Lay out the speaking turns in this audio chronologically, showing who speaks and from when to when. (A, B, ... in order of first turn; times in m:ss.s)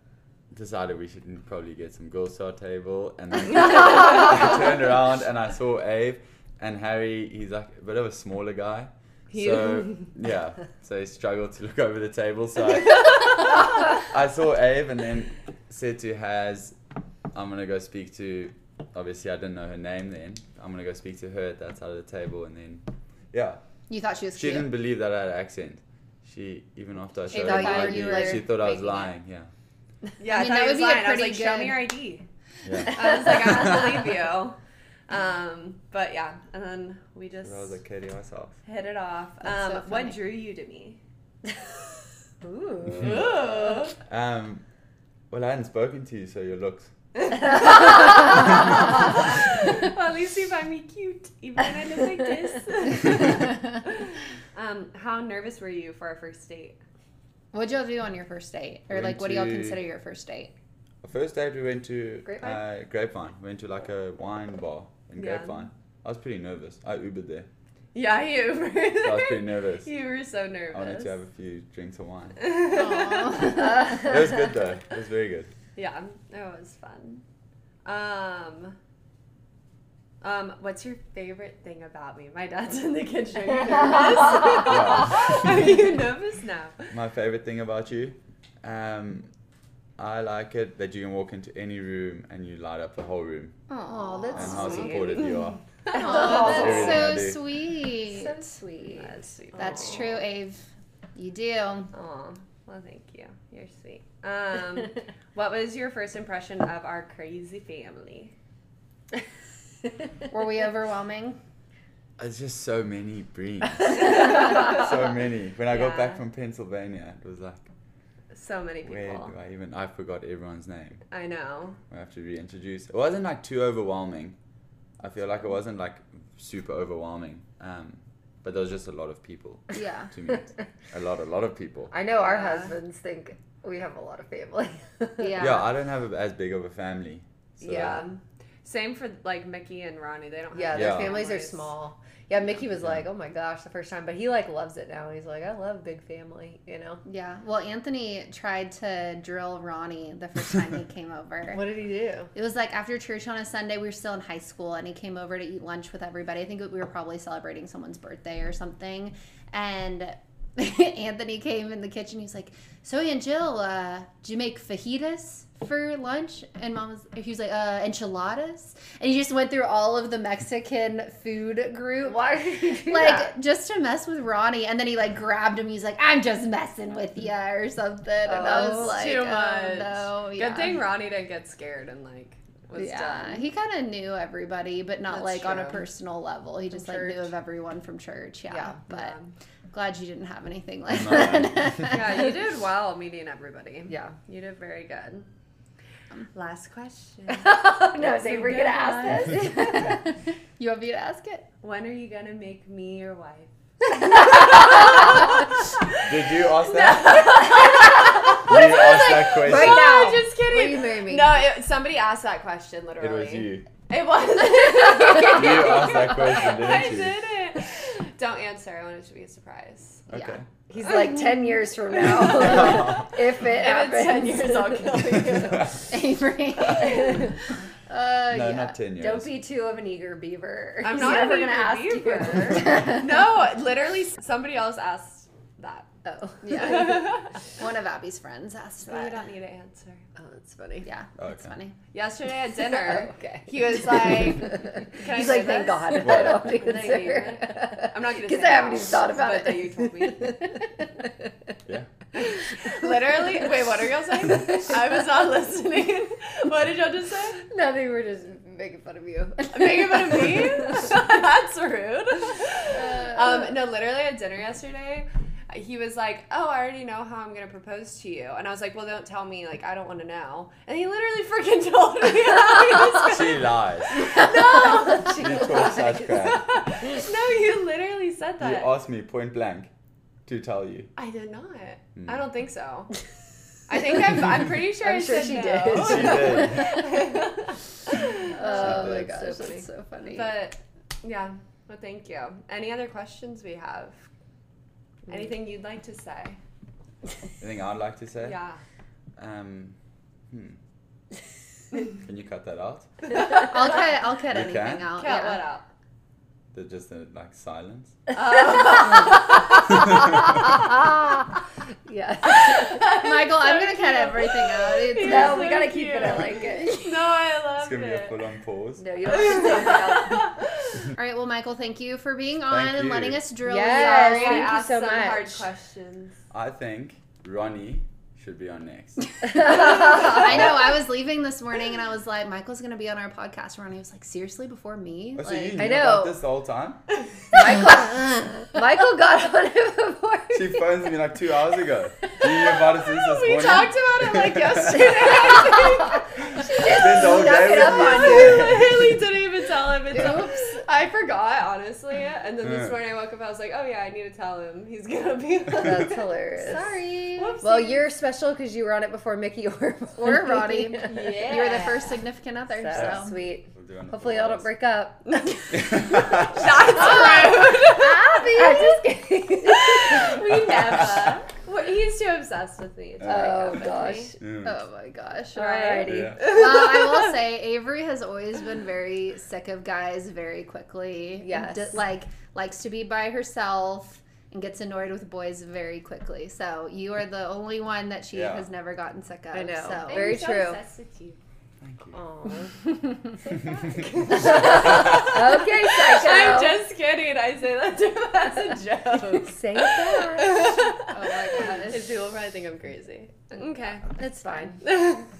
0:00.5-0:16.8 A
0:09.3-0:10.1 B
0:17.3-0:23.6 A
0:23.9-0:24.7 C
0:24.4-0:29.5 A
0:27.3-0:29.1 D
0:27.4-0:28.3 C
0:30.2-0:32.3 B
0:30.3-0:31.9 C
0:32.6-0:34.0 A
0:32.9-0:37.8 B
0:37.4-0:38.6 A
0:38.6-0:41.0 B
0:39.4-0:40.2 C
0:42.4-0:43.2 D
0:42.9-0:44.0 B
0:44.1-0:44.6 A
0:45.3-0:46.9 A
0:47.5-0:48.5 B
0:49.3-0:56.8 B
0:57.5-1:00.5 C
0:58.9-0:59.8 A
1:01.0-1:07.5 A
1:02.3-1:02.6 D
1:05.2-1:05.7 B
1:07.9-1:11.2 B
1:09.0-1:09.9 A
1:10.7-1:12.4 A
1:12.4-1:13.7 B
1:12.6-1:13.9 C
1:13.6-1:15.5 A
1:15.8-1:17.2 B
1:17.8-1:18.8 B
1:20.2-1:26.9 B
1:24.6-1:25.7 A
1:26.9-1:29.3 A
1:30.0-1:33.6 A
1:33.7-1:35.0 C
1:33.9-1:35.2 D
1:34.3-1:37.4 A
1:34.5-1:36.9 B
1:35.9-1:37.2 D
1:35.9-1:38.5 C
1:38.0-1:40.0 D
1:38.9-1:40.2 B
1:39.6-1:41.9 C
1:41.9-1:48.3 B
1:50.3-1:51.4 C
1:52.2-1:57.7 A
1:55.7-1:56.2 B
1:58.3-1:59.3 B
1:58.8-2:01.0 A
2:01.1-2:01.8 B
2:01.9-2:04.4 A
2:05.0-2:11.9 A
2:09.8-2:10.1 C
2:11.9-2:15.4 D
2:12.2-2:12.7 B
2:15.2-2:15.7 C
2:15.4-2:18.1 A
2:17.6-2:18.1 D
2:17.6-2:21.8 B
2:20.5-2:27.0 D
2:20.7-2:21.2 A
2:27.0-2:31.6 C
2:31.5-2:32.3 D
2:32.3-2:52.3 C
2:52.0-2:53.3 D
2:52.8-3:00.8 C
2:58.2-2:59.1 D
2:58.4-3:03.5 B
3:02.8-3:09.2 C
3:05.1-3:05.8 B
3:06.7-3:07.3 B
3:08.5-3:08.8 D
3:08.9-3:09.4 B
3:09.7-3:12.3 C
3:10.9-3:11.9 A
3:11.9-3:15.3 B
3:13.9-3:14.2 D
3:16.3-3:19.4 B
3:17.3-3:20.0 D
3:19.6-3:21.4 C
3:21.6-3:25.5 B
3:26.0-3:27.2 A
3:26.5-3:40.0 B
3:28.4-3:30.2 A
3:29.4-3:31.4 D
3:33.0-3:33.7 A
3:35.2-3:37.2 A
3:40.1-3:40.5 A
3:40.1-3:40.4 C
3:40.7-3:44.9 D
3:42.3-3:42.6 B
3:42.6-3:43.0 A
3:43.4-3:45.8 B
3:45.9-3:47.3 C
3:46.7-3:47.3 B
3:47.0-3:47.3 D
3:47.9-3:48.8 C
3:48.3-3:49.4 A
3:49.0-3:52.9 D
3:50.8-3:55.9 B
3:56.0-3:57.1 D
3:56.4-3:57.1 C
3:56.6-3:57.3 B
3:57.6-3:59.2 C
3:58.8-4:00.0 B
4:00.2-4:00.9 D
4:00.8-4:01.8 C
4:01.2-4:01.6 A
4:01.9-4:10.4 B
4:02.6-4:11.3 D
4:06.0-4:06.6 A
4:12.1-4:17.4 B
4:17.4-4:20.7 D
4:19.5-4:38.7 B
4:22.8-4:23.2 C
4:33.0-4:34.0 A
4:34.9-4:35.8 D
4:35.0-4:36.4 A
4:38.4-4:39.7 A
4:40.3-4:40.9 A
4:41.0-4:42.9 B
4:42.0-4:42.2 A
4:43.7-4:48.7 B
4:44.8-4:46.8 D
4:45.7-4:46.7 A
4:48.3-4:50.3 C
4:48.3-4:49.7 D
4:50.1-4:54.0 B
4:55.1-4:56.4 B
4:57.4-4:58.4 A
4:58.2-4:58.6 B
4:59.2-4:59.8 A
5:00.3-5:00.6 A
5:02.0-5:02.9 A
5:03.4-5:05.4 C
5:04.3-5:04.9 A
5:04.9-5:05.7 B
5:06.5-5:08.0 A
5:08.1-5:09.4 B
5:09.7-5:12.9 D
5:12.3-5:18.2 B
5:12.9-5:16.3 C
5:15.0-5:17.0 D
5:17.6-5:19.0 A
5:18.8-5:20.3 D
5:19.0-5:20.7 B
5:20.9-5:24.6 C
5:22.5-5:23.2 A
5:23.4-5:25.5 D
5:23.7-5:26.2 B
5:26.3-5:29.1 A
5:29.3-5:30.2 D
5:29.3-5:35.8 C
5:30.2-5:30.5 A
5:35.2-5:36.8 A
5:35.6-5:36.2 D
5:37.3-5:40.6 D
5:40.3-5:45.1 A
5:42.2-5:56.0 B
5:46.4-5:48.9 A
5:46.6-5:48.6 D
5:49.9-5:50.6 D
5:55.5-5:56.6 D
5:56.4-5:57.4 C
5:57.2-5:57.9 B
5:57.4-6:01.3 D
6:00.0-6:03.2 C
6:00.9-6:02.0 B
6:02.6-6:05.3 D
6:02.8-6:04.6 A
6:05.1-6:05.4 B
6:05.6-6:06.5 A
6:06.3-6:08.6 B
6:06.8-6:10.0 D
6:06.9-6:08.7 C
6:09.4-6:14.1 B
6:10.4-6:11.1 A
6:13.0-6:14.2 D
6:14.2-6:14.6 A
6:14.4-6:30.2 C
6:15.4-6:16.3 D
6:15.4-6:16.2 B
6:15.9-6:16.1 A
6:21.2-6:21.7 D
6:28.1-6:28.5 A
6:29.3-6:30.6 D
6:29.8-6:31.2 B
6:31.6-6:32.0 A
6:31.9-6:32.5 D
6:32.6-6:33.2 C
6:33.5-6:33.9 A
6:33.6-6:44.0 B
6:34.1-6:36.6 D
6:39.2-6:40.4 D
6:40.9-6:41.9 C
6:44.0-6:44.6 D
6:44.6-6:45.1 B